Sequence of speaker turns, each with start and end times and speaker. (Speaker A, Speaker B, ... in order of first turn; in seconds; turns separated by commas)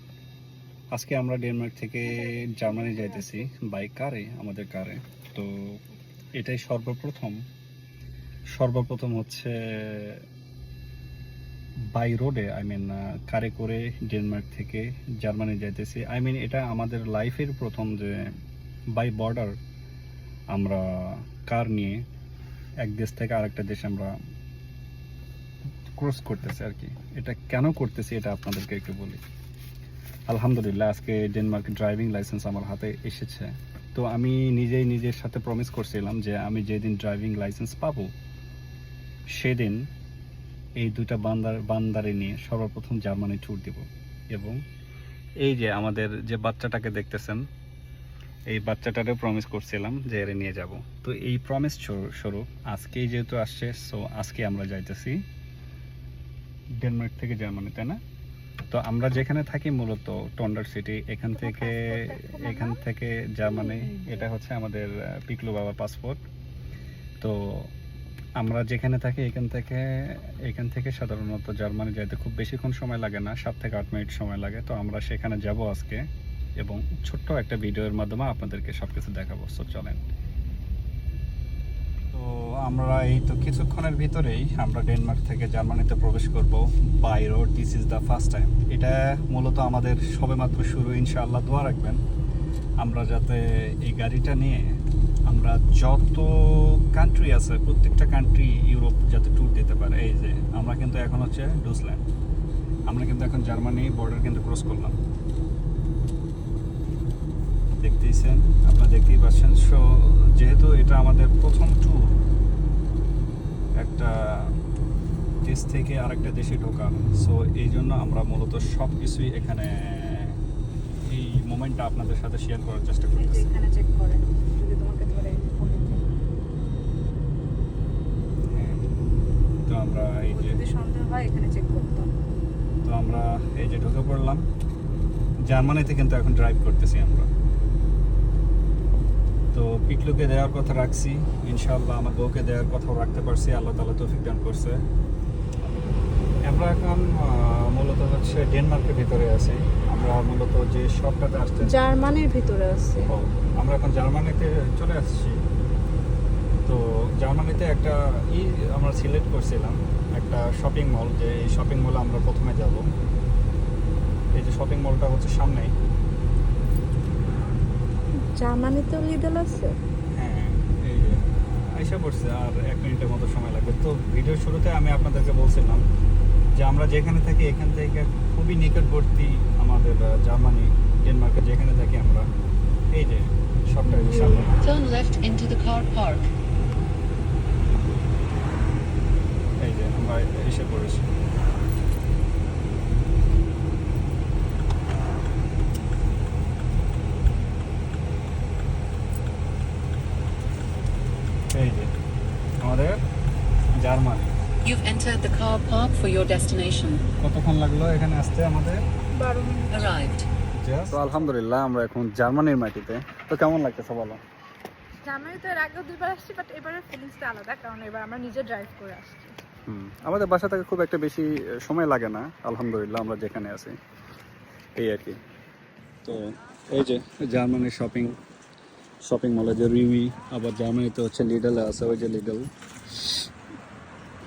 Speaker A: 0.9-5.8, Speaker B: 2.1-3.5, Speaker A: 6.3-7.5, Speaker A: 8.6-10.2, Speaker A: 11.9-18.3, Speaker A: 19.0-19.6, Speaker A: 20.5-22.0, Speaker A: 22.8-24.1, Speaker A: 26.0-29.2, Speaker A: 30.3-38.1, Speaker A: 39.4-39.9, Speaker A: 40.8-44.6, Speaker A: 45.4-47.4, Speaker A: 48.5-55.2, Speaker A: 56.8-58.0, Speaker A: 58.7-66.2, Speaker B: 61.4-62.8, Speaker B: 63.7-64.2, Speaker A: 67.2-67.7, Speaker A: 68.4-76.0, Speaker A: 76.6-80.0, Speaker A: 82.1-92.0, Speaker A: 92.8-94.8, Speaker A: 95.3-102.0, Speaker A: 102.9-105.0, Speaker A: 107.8-112.1, Speaker A: 113.8-114.6, Speaker A: 115.4-120.4, Speaker A: 121.0-123.5, Speaker B: 123.2-126.0, Speaker A: 128.5-128.9, Speaker A: 129.7-130.6, Speaker B: 130.3-132.1, Speaker A: 132.8-134.4, Speaker A: 135.5-137.3, Speaker A: 139.5-144.8, Speaker A: 146.5-151.8, Speaker B: 151.6-153.1, Speaker A: 153.1-155.4, Speaker A: 156.7-162.8, Speaker A: 164.4-165.7, Speaker B: 168.3-169.8, Speaker A: 170.2-175.8, Speaker A: 176.6-182.3, Speaker A: 182.9-184.6, Speaker B: 183.9-184.5, Speaker C: 184.6-186.3, Speaker A: 189.6-191.1, Speaker A: 201.5-201.9, Speaker A: 202.6-203.0, Speaker A: 203.8-204.3, Speaker C: 204.6-207.0, Speaker A: 207.2-208.8, Speaker B: 209.2-209.9, Speaker C: 209.7-210.3, Speaker A: 210.5-214.2, Speaker B: 215.0-219.4, Speaker A: 219.7-223.8, Speaker A: 224.8-225.2, Speaker A: 226.0-228.2, Speaker A: 229.0-233.2